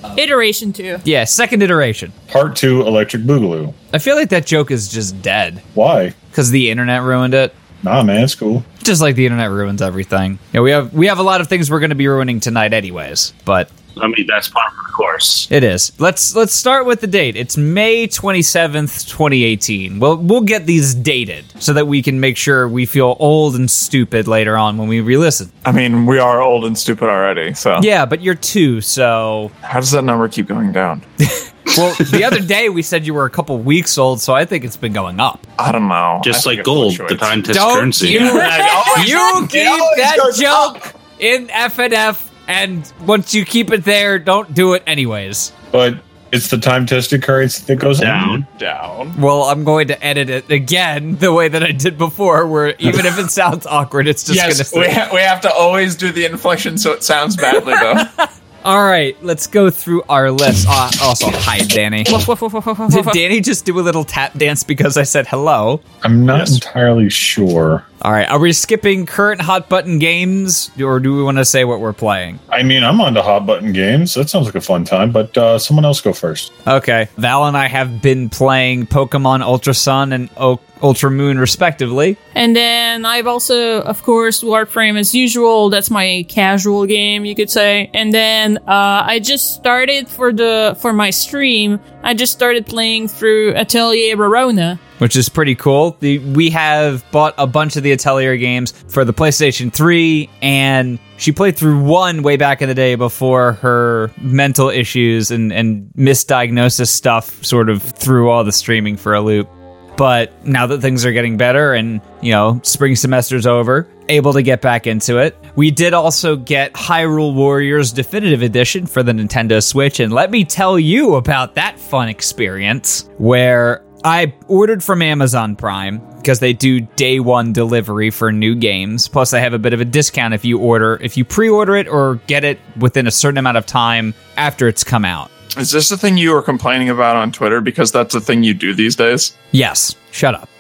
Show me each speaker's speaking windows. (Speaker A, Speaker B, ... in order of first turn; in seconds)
Speaker A: 0.1-1.0, 38.3-39.4, 62.1-63.2, 82.3-94.8
Speaker B: 1.0-2.1, 3.9-5.6, 6.3-7.5, 8.8-13.7, 15.5-25.5, 27.8-29.5, 31.2-35.4, 37.5-45.5, 49.1-55.0, 57.5-62.2, 62.9-65.8, 68.0-72.4, 76.7-82.2, 95.0-135.3, 139.5-140.5
Speaker C: 2.3-3.7, 5.7-6.1, 7.8-8.7, 45.7-48.4, 66.0-67.8, 72.5-76.5
Speaker D: 13.9-15.5, 36.2-38.6, 48.0-48.4
Speaker E: 25.6-27.9, 29.6-31.0, 35.6-37.4, 38.0-40.8, 48.0-49.1, 54.3-58.1, 66.3-66.6, 135.6-139.3